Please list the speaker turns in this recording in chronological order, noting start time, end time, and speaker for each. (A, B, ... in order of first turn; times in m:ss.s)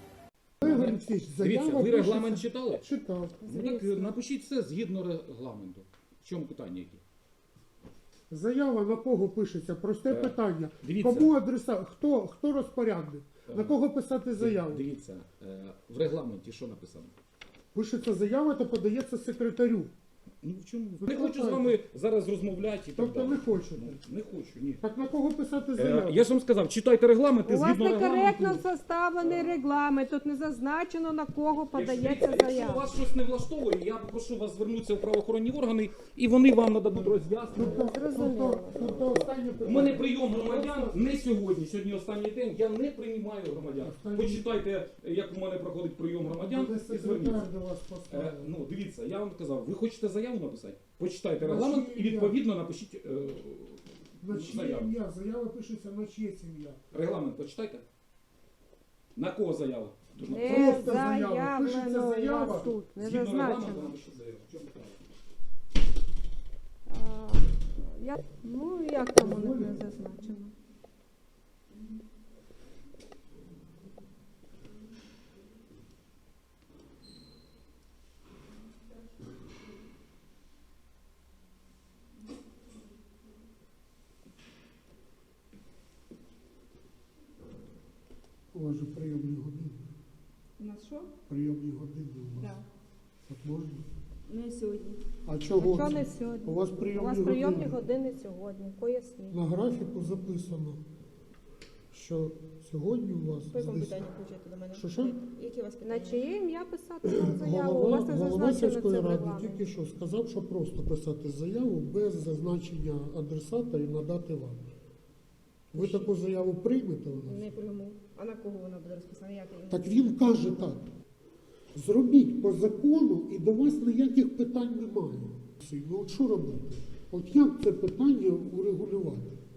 0:00.6-0:02.9 A
0:00.6-0:03.4 B
0:03.4-0:04.1 C
0:03.4-0:07.0 A
0:08.3-0:14.9 B
0:10.1-0:11.3 A
0:13.4-0:13.8 A
0:14.3-0:17.1 A
0:17.7-0:19.9 B
0:20.4-0:24.8 A
0:21.0-0:21.8 B
0:22.9-0:24.0 B
0:24.8-0:26.2 B
0:25.8-0:28.6 A
0:27.4-0:32.8 C
0:29.2-0:29.6 A
0:31.7-0:37.9 A
0:37.0-0:41.1 B
0:37.6-0:38.7 C
0:38.8-0:47.5 A
0:43.8-0:44.5 B
0:46.5-0:48.5 B
0:48.1-0:54.9 A
0:51.4-0:52.4 B
0:54.2-0:56.8 B
0:56.9-0:57.8 A
0:59.1-1:01.0 A
1:00.3-1:03.9 C
1:00.4-1:02.8 B
1:03.0-1:05.0 A
1:06.9-1:10.5 C
1:09.1-1:09.8 B
1:28.5-1:29.9 B
1:30.6-1:31.1 D
1:31.3-1:32.6 B
1:32.4-1:32.6 D
1:33.3-1:33.8 B
1:34.3-1:35.0 D
1:35.2-1:37.8 B
1:35.7-1:39.4 C
1:39.3-1:40.8 B
1:41.9-1:44.1 B
1:43.5-1:46.2 D
1:44.7-1:45.2 B
1:45.8-1:49.6 C
1:47.1-1:54.7 B
1:55.7-1:57.5 B
1:55.8-1:56.1 D
1:57.2-2:00.3 D
1:59.7-2:00.8 B
2:01.7-2:09.4 B